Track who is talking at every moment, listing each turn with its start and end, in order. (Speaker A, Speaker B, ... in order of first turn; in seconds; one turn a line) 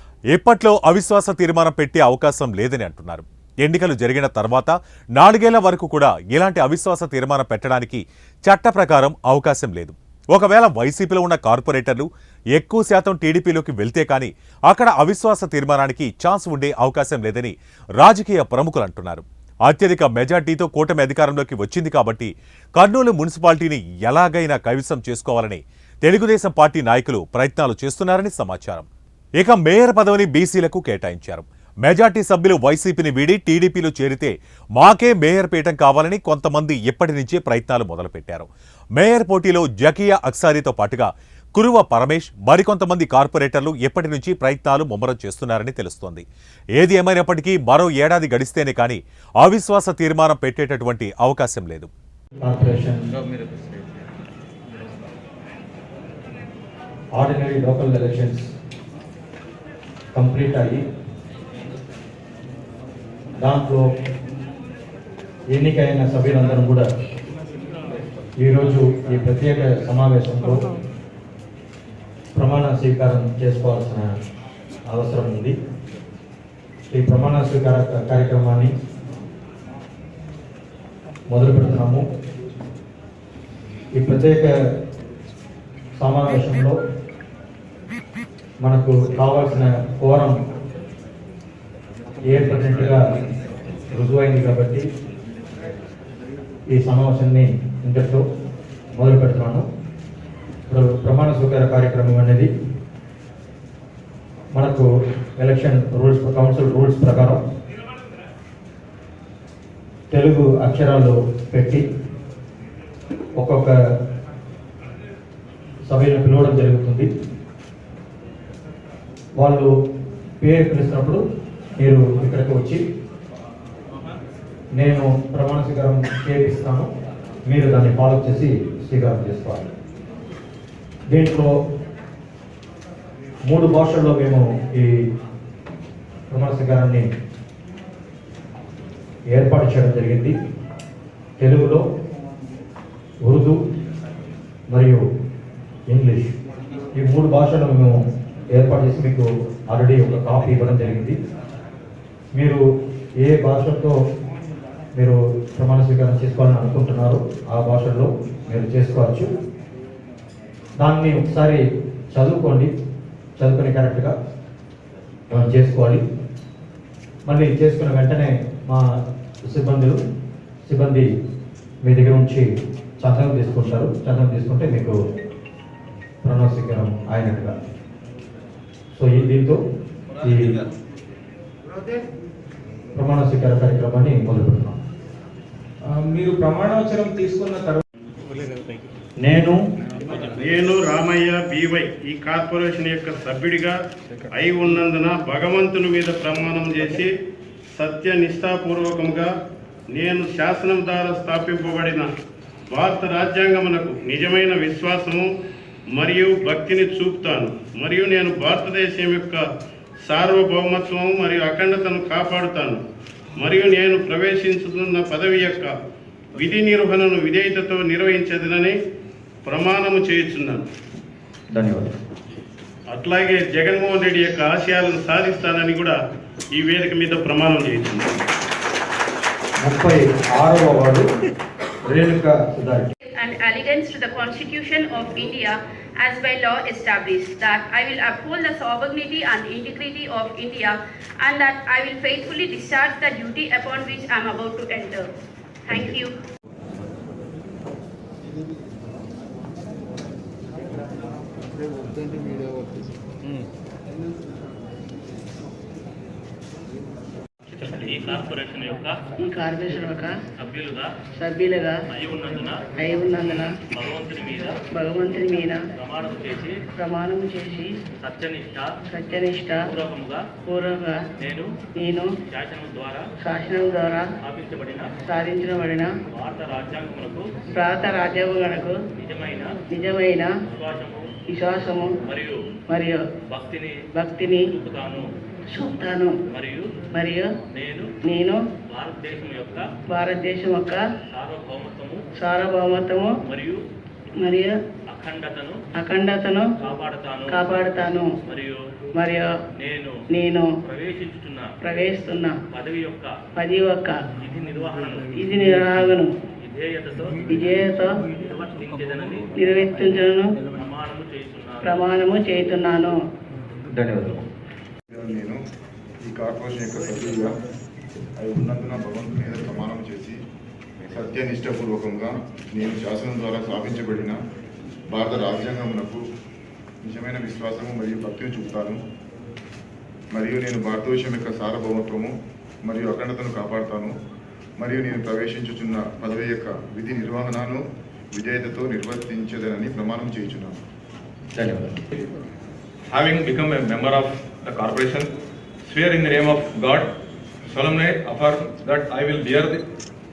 Speaker A: 0.3-28.9
Speaker A: 29.4-46.2
Speaker A: 46.8-51.9
Speaker B: 52.4-53.2
Speaker B: 57.2-58.5
Speaker B: 60.1-60.8
Speaker B: 63.4-63.8
Speaker B: 65.5-66.9
Speaker B: 68.4-70.7
Speaker B: 72.4-74.1
Speaker B: 74.9-75.5
Speaker B: 76.9-78.7
Speaker B: 81.3-82.0
Speaker B: 84.0-84.5
Speaker B: 86.0-86.8
Speaker B: 88.6-90.4
Speaker B: 92.2-93.0
Speaker B: 93.9-94.8
Speaker B: 96.7-98.2
Speaker B: 99.0-99.7
Speaker B: 100.7-102.5
Speaker B: 104.5-104.9
Speaker B: 105.4-107.4
Speaker B: 110.1-111.8
Speaker B: 113.4-113.8
Speaker B: 115.9-117.1
Speaker B: 119.4-119.7
Speaker B: 120.4-121.2
Speaker B: 121.8-122.8
Speaker B: 124.8-126.9
Speaker B: 127.5-129.7
Speaker B: 131.1-131.5
Speaker B: 133.5-135.0
Speaker B: 136.3-137.1
Speaker B: 139.3-140.3
Speaker B: 141.4-141.8
Speaker B: 143.3-143.6
Speaker B: 144.7-145.0
Speaker B: 145.9-146.3
Speaker B: 146.9-148.0
Speaker B: 148.5-151.2
Speaker B: 152.3-152.6
Speaker B: 153.2-154.0
Speaker B: 154.9-159.3
Speaker B: 160.8-161.6
Speaker B: 162.1-162.7
Speaker B: 163.4-164.1
Speaker B: 165.3-166.0
Speaker B: 167.3-168.8
Speaker B: 169.5-170.0
Speaker B: 170.7-171.1
Speaker B: 171.8-172.5
Speaker B: 173.0-174.9
Speaker B: 176.2-177.6
Speaker B: 179.0-179.6
Speaker B: 180.2-180.6
Speaker B: 183.0-184.8
Speaker C: 185.9-187.8
Speaker B: 189.2-189.6
Speaker D: 190.1-193.8
Speaker D: 194.3-197.1
Speaker D: 197.8-199.3
Speaker D: 199.9-202.1
Speaker D: 202.7-205.2
Speaker D: 205.9-209.4
Speaker D: 210.0-212.8
Speaker D: 213.4-215.7
Speaker D: 216.4-218.8
Speaker D: 219.5-220.7
Speaker B: 221.5-221.9
Speaker D: 222.9-226.0
Speaker D: 226.5-228.1
Speaker B: 229.6-231.1
Speaker B: 231.9-232.9
Speaker E: 233.2-245.1
Speaker E: 245.7-246.1
Speaker F: 257.6-259.0
Speaker G: 259.2-260.1
Speaker F: 260.4-260.9
Speaker G: 261.2-261.8
Speaker F: 261.9-262.6
Speaker G: 262.8-263.6
Speaker F: 263.8-264.6
Speaker G: 264.7-265.6
Speaker F: 265.8-266.5
Speaker G: 266.8-267.7
Speaker F: 268.0-268.7
Speaker G: 268.9-269.7
Speaker F: 269.7-270.2
Speaker G: 270.5-271.0
Speaker F: 271.2-271.5
Speaker G: 271.8-272.1
Speaker F: 272.3-273.0
Speaker G: 273.2-274.1
Speaker F: 274.2-274.9
Speaker G: 275.1-275.9
Speaker F: 276.1-277.2
Speaker G: 277.6-278.8
Speaker F: 279.0-279.5
Speaker G: 279.7-280.3
Speaker F: 280.5-281.0
Speaker G: 281.3-281.9
Speaker F: 282.1-282.4
Speaker G: 282.7-283.0
Speaker F: 283.3-283.8
Speaker G: 284.0-284.5
Speaker F: 284.5-285.1
Speaker G: 285.5-286.1
Speaker F: 286.3-286.6
Speaker G: 286.9-287.3
Speaker F: 287.5-287.9
Speaker G: 288.0-288.4
Speaker F: 288.7-289.7
Speaker G: 289.9-290.8
Speaker F: 291.1-292.0
Speaker G: 292.2-293.1
Speaker F: 293.3-293.6
Speaker G: 294.2-294.5
Speaker F: 294.9-295.6
Speaker G: 295.8-296.5
Speaker F: 296.6-297.5
Speaker G: 297.3-298.1
Speaker F: 298.3-298.6
Speaker G: 298.9-299.3
Speaker F: 299.6-299.9
Speaker G: 300.1-300.5
Speaker F: 300.6-301.5
Speaker G: 301.6-302.4
Speaker F: 302.5-303.1
Speaker G: 303.4-304.0
Speaker F: 304.2-305.3
Speaker G: 305.1-306.1
Speaker F: 306.4-307.4
Speaker G: 307.3-307.9
Speaker F: 308.2-309.3
Speaker G: 309.4-310.4
Speaker F: 310.6-311.9
Speaker G: 311.6-312.9
Speaker H: 314.9-315.4
Speaker H: 316.0-317.3
Speaker H: 318.2-320.2
Speaker H: 320.9-324.2
Speaker H: 324.9-326.0
Speaker H: 326.8-328.8
Speaker H: 330.1-332.1
Speaker H: 332.6-333.9
Speaker H: 334.6-337.6
Speaker H: 338.1-340.5
Speaker I: 342.9-345.1
Speaker I: 345.6-346.9
Speaker I: 347.5-349.6